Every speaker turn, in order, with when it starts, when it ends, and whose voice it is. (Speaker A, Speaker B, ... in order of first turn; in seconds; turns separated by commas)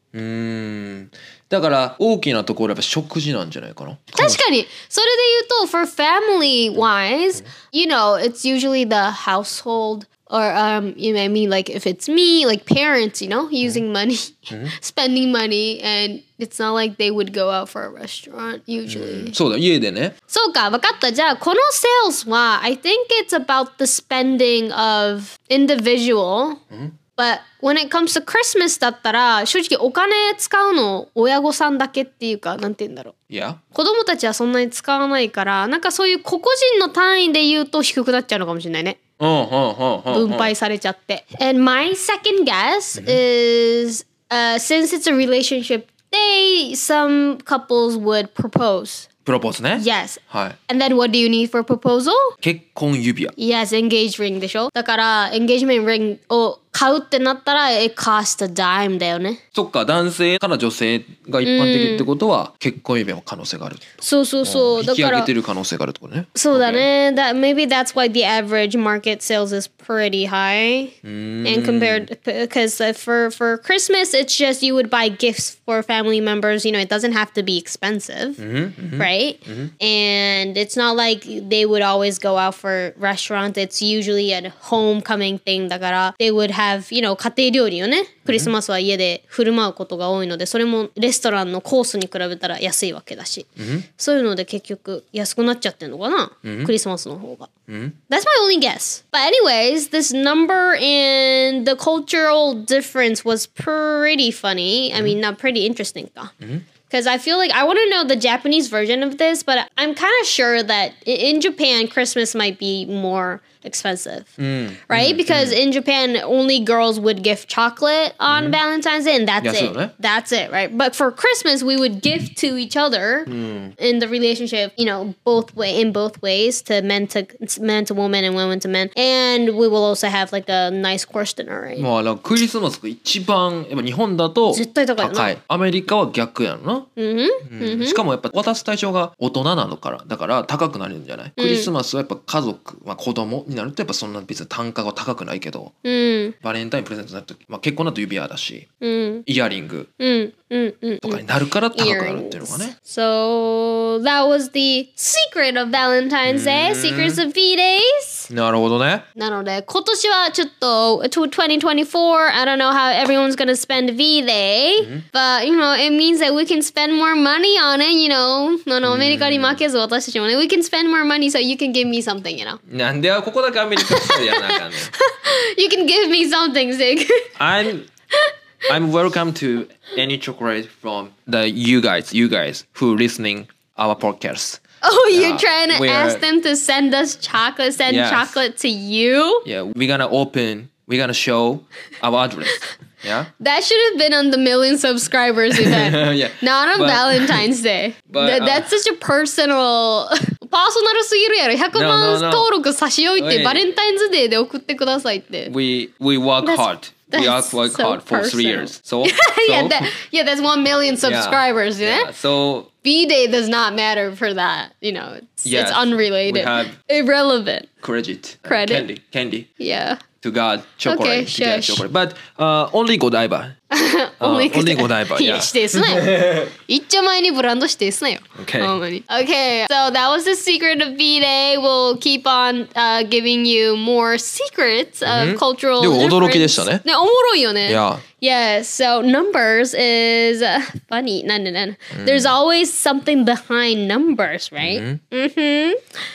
Speaker A: 0.1-4.4, Speaker B: 4.1-19.3, Speaker A: 18.9-20.1, Speaker B: 20.3-26.6, Speaker B: 27.2-33.1, Speaker A: 33.3-33.6, Speaker B: 33.7-39.0, Speaker A: 39.2-40.5, Speaker B: 40.1-49.1, Speaker A: 49.2-50.6, Speaker B: 49.8-52.3, Speaker A: 52.4-53.3, Speaker B: 53.4-59.4, Speaker A: 59.5-66.9, Speaker B: 61.4-62.1, Speaker B: 64.0-65.3, Speaker B: 66.3-78.4, Speaker A: 71.0-72.1, Speaker A: 78.4-79.7, Speaker B: 79.0-97.5, Speaker A: 88.2-88.5, Speaker A: 93.6-93.8, Speaker A: 96.4-96.7, Speaker A: 97.7-98.0, Speaker B: 98.1-106.3, Speaker B: 106.9-131.9, Speaker A: 114.4-115.6, Speaker A: 118.3-118.6, Speaker A: 119.4-119.9, Speaker A: 123.3-123.7, Speaker A: 131.8-136.9, Speaker B: 134.5-135.3, Speaker B: 137.0-138.0, Speaker A: 137.5-145.7, Speaker B: 141.4-141.7, Speaker B: 145.8-146.3, Speaker A: 146.4-148.7, Speaker B: 148.8-149.2, Speaker A: 149.3-149.9, Speaker B: 150.0-151.2, Speaker A: 151.0-152.7, Speaker B: 151.7-158.3, Speaker A: 156.3-157.2, Speaker A: 158.3-159.0, Speaker B: 159.2-172.6, Speaker A: 164.8-165.0, Speaker A: 168.8-169.6, Speaker A: 172.7-174.9, Speaker B: 173.8-177.3, Speaker A: 177.4-177.9, Speaker A: 178.7-186.2, Speaker B: 184.8-189.4, Speaker A: 187.8-188.4, Speaker A: 189.4-193.3, Speaker B: 193.4-205.5, Speaker A: 195.5-197.4, Speaker A: 198.1-198.7, Speaker A: 201.7-202.5, Speaker A: 203.2-203.7, Speaker A: 205.5-209.9, Speaker B: 206.4-212.1, Speaker A: 211.0-212.7, Speaker B: 212.8-217.7, Speaker A: 215.4-216.7, Speaker A: 217.8-219.5, Speaker B: 218.5-218.9, Speaker B: 219.6-220.0, Speaker A: 220.2-223.5, Speaker B: 220.8-221.8, Speaker B: 223.7-245.8, Speaker A: 224.2-226.5, Speaker A: 228.4-228.8, Speaker A: 235.1-236.8, Speaker A: 237.7-238.0, Speaker A: 241.9-242.3, Speaker A: 244.6-245.0